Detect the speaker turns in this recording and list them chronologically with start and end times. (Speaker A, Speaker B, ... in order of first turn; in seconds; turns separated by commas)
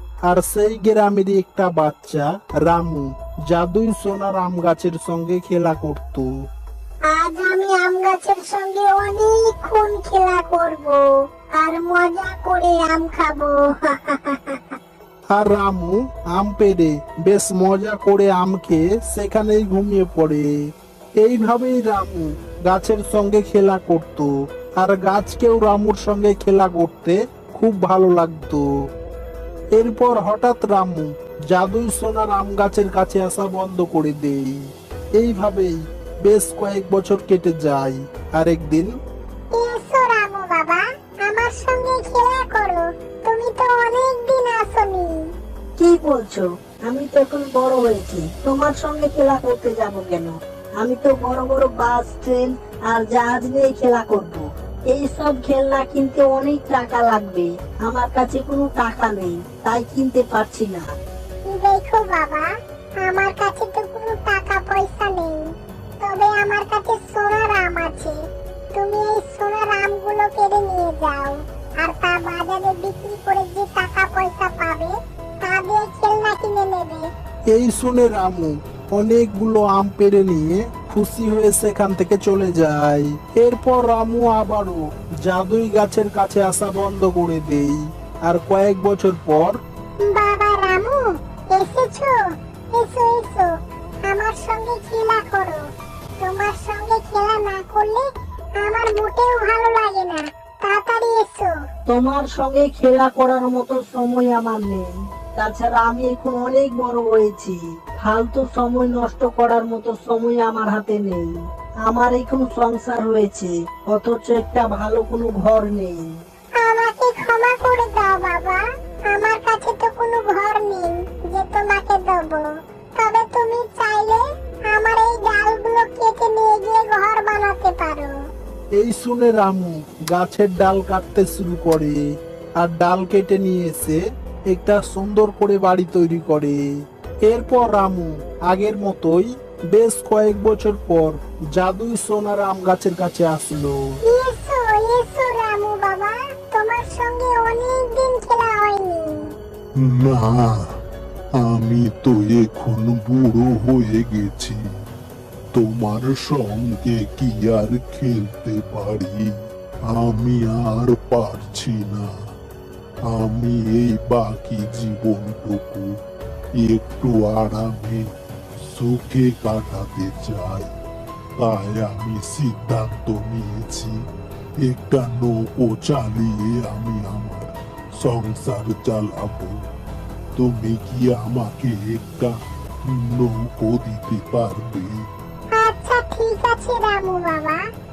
Speaker A: 0.3-6.3, Speaker B: 7.1-10.8, Speaker B: 11.8-14.3, Speaker A: 15.3-20.5, Speaker A: 21.2-28.7, Speaker A: 29.8-34.6, Speaker A: 35.2-38.9, Speaker B: 39.5-45.1, Speaker C: 45.8-50.3, Speaker C: 50.9-52.4, Speaker C: 53.1-54.4, Speaker C: 54.9-60.8, Speaker B: 61.5-62.5, Speaker B: 63.0-65.4, Speaker B: 66.0-68.2, Speaker B: 68.7-77.0, Speaker A: 77.5-89.6, Speaker B: 90.0-92.2, Speaker B: 92.7-93.5, Speaker B: 94.0-95.6, Speaker B: 96.2-98.0, Speaker B: 98.6-101.5, Speaker C: 101.9-104.8, Speaker C: 105.4-107.5, Speaker C: 108.0-111.3, Speaker C: 111.9-113.5, Speaker C: 114.0-115.5, Speaker B: 116.6-128.2, Speaker A: 128.8-132.0, Speaker A: 132.6-136.6, Speaker A: 137.3-143.8, Speaker B: 144.1-149.3, Speaker D: 149.8-150.7, Speaker D: 151.4-154.6, Speaker D: 155.5-159.3, Speaker D: 159.9-162.1, Speaker D: 163.1-165.9, Speaker D: 166.6-170.7, Speaker D: 171.4-174.1, Speaker D: 174.6-179.6, Speaker D: 180.4-185.1, Speaker B: 185.5-187.6